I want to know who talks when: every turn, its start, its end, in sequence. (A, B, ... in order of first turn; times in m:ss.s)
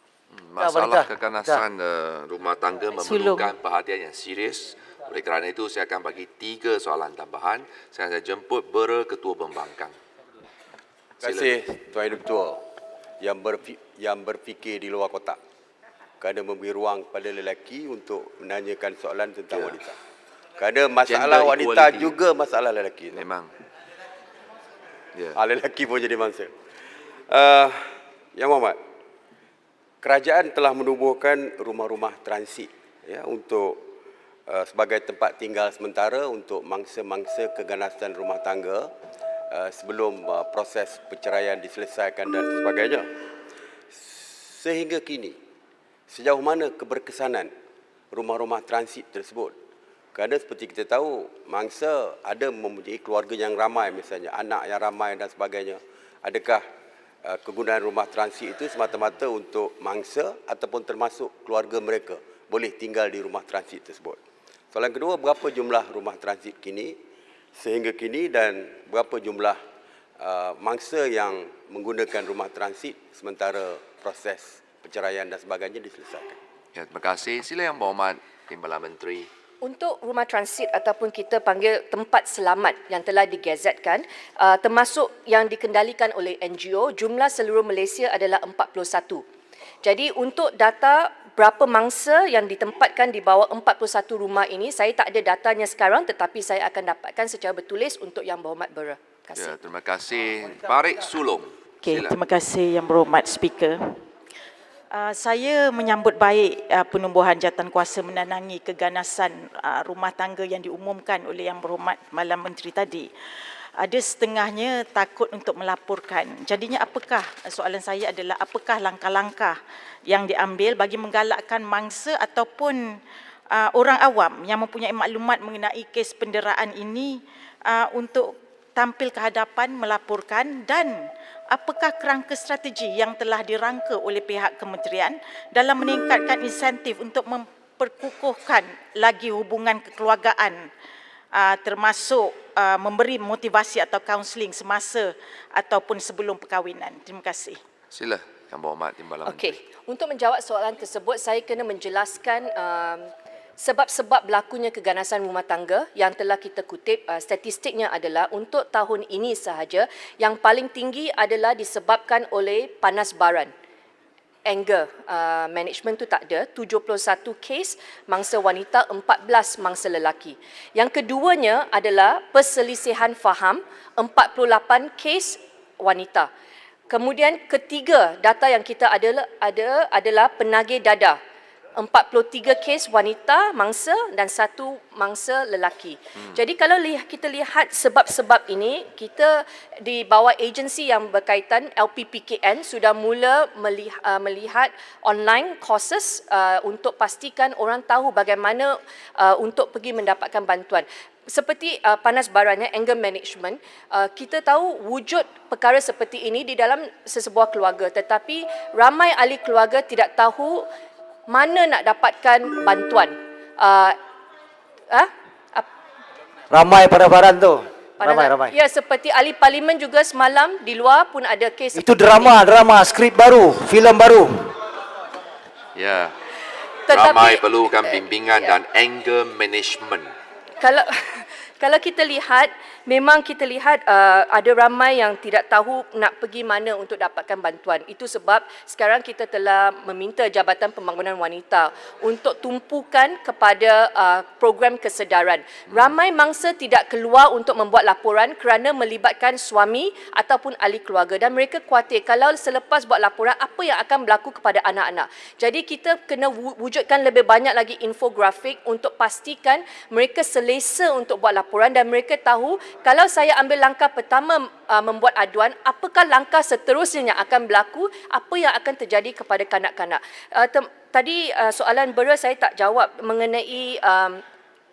0:00.3-0:10.0 A
0:11.2-0:12.6 B
0:11.2-0:11.5 A
0:13.2-0:15.4 B
0:16.2-0:20.0 B
0:19.5-0:19.8 A
0:20.6-0:23.2 B
0:21.0-0:22.2 A
0:23.1-0:23.5 A
0:25.3-0:26.5 B
0:27.3-0:28.8 B
0:30.0-0:33.8 B
0:34.5-0:38.9 B
0:39.5-0:43.1 B
0:43.9-0:45.4 B
0:46.1-0:47.5 B
0:48.1-0:49.6 B
0:50.2-0:56.6 B
0:57.2-1:04.2 B
1:04.7-1:07.0 B
1:07.6-1:09.6 B
1:10.2-1:16.4 B
1:16.7-1:19.3 A
1:19.6-1:29.2 C
1:29.8-1:39.5 C
1:39.4-1:42.2 A
1:41.8-1:44.0 D
1:44.9-1:53.1 D
1:53.8-2:03.0 D
2:03.5-2:20.7 D
2:21.3-2:27.6 D
2:27.9-2:29.6 A
2:29.2-2:43.5 C
2:44.5-2:56.3 C
2:56.9-3:01.2 C
3:01.8-3:30.7 C
3:31.3-3:34.0 C
3:34.9-3:35.7 C
3:36.5-3:38.5 E
3:38.0-3:42.4 C
3:41.8-3:44.6 E
3:45.8-3:46.1 A
3:46.9-3:48.6 C
3:46.9-3:50.1 A
3:50.6-4:34.2 C